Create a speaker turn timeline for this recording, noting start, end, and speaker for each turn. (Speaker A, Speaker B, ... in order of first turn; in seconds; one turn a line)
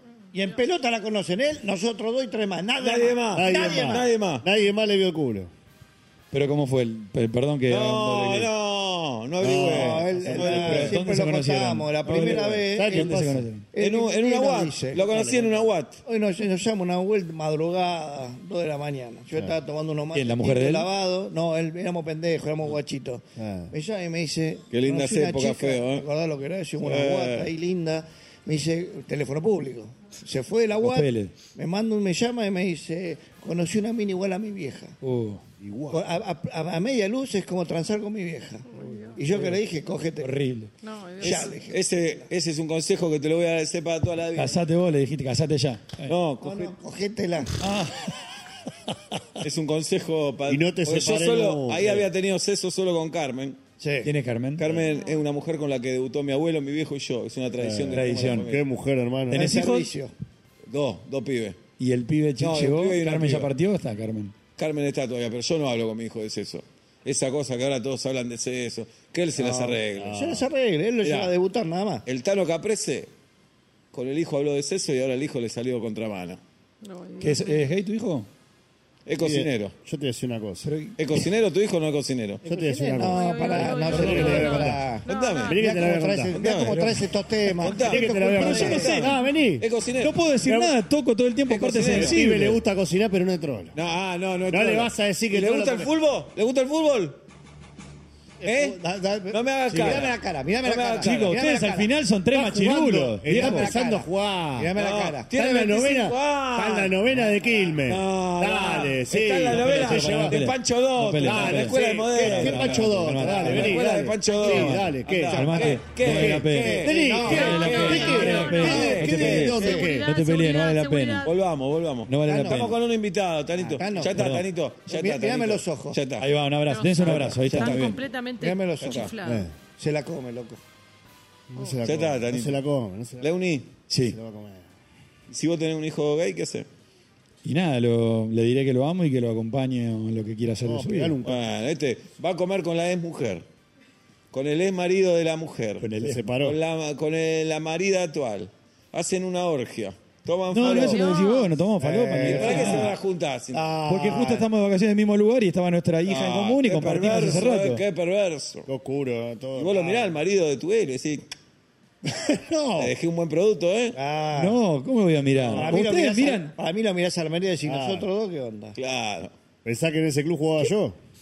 Speaker A: 0.3-4.1
Speaker B: 2.8-4.4
Speaker C: 3.3-5.5
Speaker D: 6.3-8.5
Speaker B: 7.7-11.0
Speaker C: 9.4-10.9
Speaker A: 9.4-15.1
Speaker D: 10.3-13.6
Speaker C: 12.1-13.4
Speaker B: 13.8-16.0
Speaker C: 15.0-15.7
Speaker A: 16.0-35.0
Speaker D: 20.1-20.9
Speaker C: 23.4-23.7
Speaker B: 24.7-26.1
Speaker B: 26.8-27.5
Speaker D: 30.8-31.3
Speaker D: 35.0-35.4
Speaker C: 35.6-36.0
Speaker A: 35.9-40.3
Speaker E: 38.8-39.1
Speaker D: 40.2-40.7
Speaker E: 40.8-41.4
Speaker A: 41.2-41.8
Speaker B: 41.2-44.6
Speaker D: 44.4-46.1
Speaker B: 46.0-46.7
Speaker A: 46.4-47.6
Speaker D: 47.6-48.3
Speaker D: 48.9-49.2
Speaker B: 49.4-53.6
Speaker C: 50.5-52.1
Speaker A: 53.8-54.1
Speaker D: 54.0-54.6
Speaker B: 54.6-58.6
Speaker C: 57.6-59.6
Speaker D: 57.9-58.5
Speaker D: 59.3-59.9
Speaker A: 59.3-60.1
Speaker B: 60.7-61.6
Speaker D: 61.8-64.3
Speaker B: 62.4-63.5
Speaker B: 64.6-70.2
Speaker A: 69.3-72.0
Speaker C: 69.9-70.5
Speaker B: 71.0-71.3
Speaker B: 72.0-73.1
Speaker B: 73.9-76.4
Speaker E: 76.8-77.6
Speaker D: 77.2-78.3
Speaker B: 79.0-79.7
Speaker C: 79.2-80.7
Speaker D: 80.6-81.0
Speaker B: 81.0-82.4
Speaker C: 82.4-84.9
Speaker A: 82.4-89.0
Speaker E: 83.0-85.8
Speaker D: 83.9-84.7
Speaker B: 85.0-85.6
Speaker C: 85.5-86.4
Speaker B: 86.3-86.8
Speaker D: 86.7-87.0
Speaker B: 87.6-90.1
Speaker C: 87.6-89.7
Speaker D: 88.2-89.3
Speaker D: 90.0-92.6
Speaker C: 90.4-90.7
Speaker B: 91.5-92.2
Speaker C: 91.9-93.8
Speaker B: 93.7-97.2
Speaker C: 94.5-95.9
Speaker B: 98.4-101.3
Speaker C: 98.5-99.3
Speaker D: 99.7-100.0
Speaker A: 99.7-101.9
Speaker D: 101.0-103.7
Speaker C: 102.3-104.7
Speaker A: 103.2-105.7
Speaker B: 104.8-107.0
Speaker C: 105.3-110.4
Speaker B: 107.8-119.6
Speaker D: 109.5-113.8
Speaker C: 111.2-120.1
Speaker A: 111.2-112.4
Speaker D: 114.5-121.3
Speaker A: 116.6-119.8
Speaker E: 117.2-121.3
Speaker B: 121.2-126.3
Speaker D: 122.1-122.8
Speaker A: 122.2-122.6
Speaker A: 123.6-124.2
Speaker D: 124.1-124.4
Speaker A: 124.9-126.0
Speaker D: 126.2-128.0
Speaker E: 126.7-129.5
Speaker B: 127.0-127.9
Speaker A: 128.4-130.6
Speaker B: 128.8-129.1
Speaker C: 129.2-129.5
Speaker C: 131.5-133.3
Speaker B: 131.8-132.6
Speaker B: 133.2-133.7
Speaker D: 133.9-134.2
Speaker C: 134.0-134.6
Speaker B: 135.3-136.7
Speaker D: 137.4-141.2
Speaker C: 140.6-141.4
Speaker B: 141.2-143.4
Speaker B: 144.3-145.9
Speaker D: 145.8-146.2
Speaker C: 146.0-146.6
Speaker B: 146.4-151.1
Speaker D: 150.5-152.9
Speaker E: 150.7-151.5
Speaker C: 151.8-152.8
Speaker A: 152.2-152.9
Speaker B: 152.2-153.6
Speaker A: 153.5-154.5
Speaker D: 153.8-157.8
Speaker B: 156.1-158.7
Speaker C: 158.7-160.2
Speaker B: 159.6-161.2
Speaker B: 162.8-164.0
Speaker A: 163.9-164.6
Speaker D: 164.3-166.5
Speaker B: 165.4-165.7
Speaker A: 165.5-168.8
Speaker C: 167.6-168.1
Speaker B: 168.8-169.3
Speaker C: 169.6-171.0